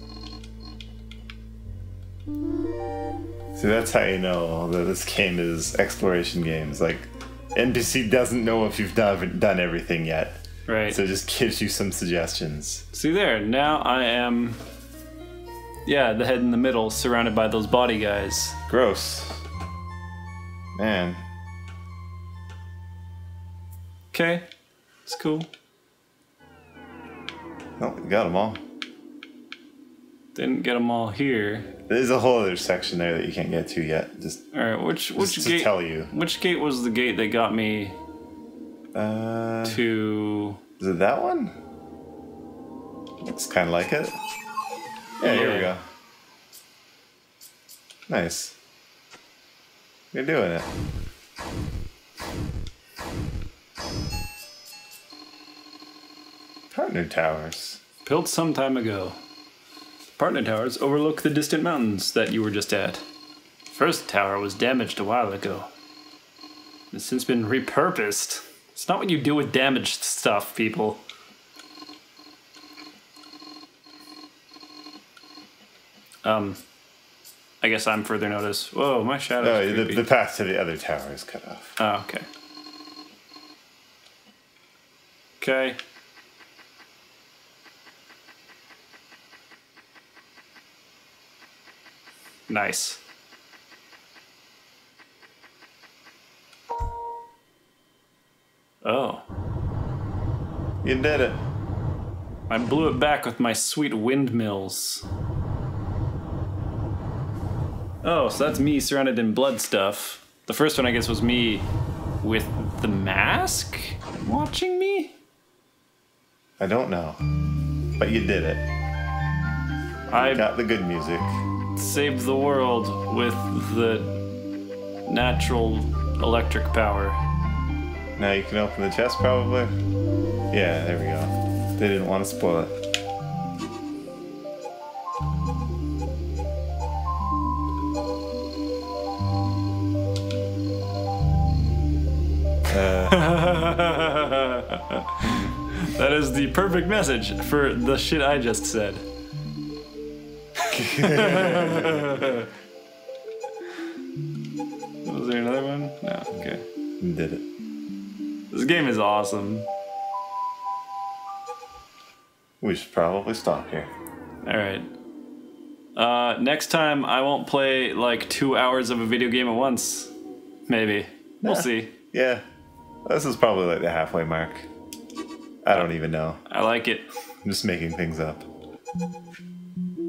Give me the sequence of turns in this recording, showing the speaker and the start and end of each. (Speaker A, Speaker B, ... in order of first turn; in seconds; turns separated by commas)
Speaker A: 3.6-12.8, Speaker B: 10.7-11.0, Speaker B: 12.9-14.6, Speaker B: 15.9-18.6, Speaker A: 18.7-19.4, Speaker A: 20.8-21.2, Speaker B: 24.1-24.5, Speaker B: 25.1-25.5, Speaker A: 27.8-28.6, Speaker B: 30.4-31.7, Speaker A: 31.9-34.4, Speaker B: 34.5-38.0, Speaker A: 35.2-36.1, Speaker A: 38.9-39.8, Speaker B: 39.6-40.6, Speaker A: 40.8-41.6, Speaker A: 43.2-44.2, Speaker A: 45.2-45.8, Speaker B: 45.2-45.7, Speaker A: 48.1-48.6, Speaker A: 50.1-50.7, Speaker A: 56.7-57.8, Speaker B: 58.0-59.2, Speaker B: 60.2-63.0, Speaker B: 63.7-65.7, Speaker B: 66.9-71.0, Speaker B: 76.2-76.6, Speaker B: 77.6-80.0, Speaker A: 79.4-81.8, Speaker B: 81.8-82.3, Speaker B: 85.4-85.8, Speaker B: 92.5-93.0, Speaker B: 98.8-99.2, Speaker A: 100.8-101.4, Speaker B: 102.5-105.0, Speaker B: 108.0-111.7, Speaker B: 112.2-115.2, Speaker A: 116.6-117.2, Speaker A: 118.0-118.6, Speaker B: 120.1-120.5, Speaker A: 120.2-121.4, Speaker B: 121.8-124.2, Speaker B: 125.1-127.2, Speaker A: 128.2-129.7, Speaker A: 130.5-132.8, Speaker A: 142.7-143.2, Speaker B: 143.0-149.0, Speaker A: 145.2-145.5, Speaker B: 150.7-152.5, Speaker A: 150.7-152.3, Speaker B: 155.1-156.7, Speaker A: 157.0-157.5, Speaker B: 158.5-159.7, Speaker A: 162.6-163.9, Speaker B: 164.4-164.9, Speaker B: 166.0-170.1, Speaker B: 170.7-171.9, Speaker A: 171.4-172.4, Speaker A: 173.1-174.7, Speaker A: 175.6-176.4, Speaker B: 176.5-177.1, Speaker A: 177.4-178.5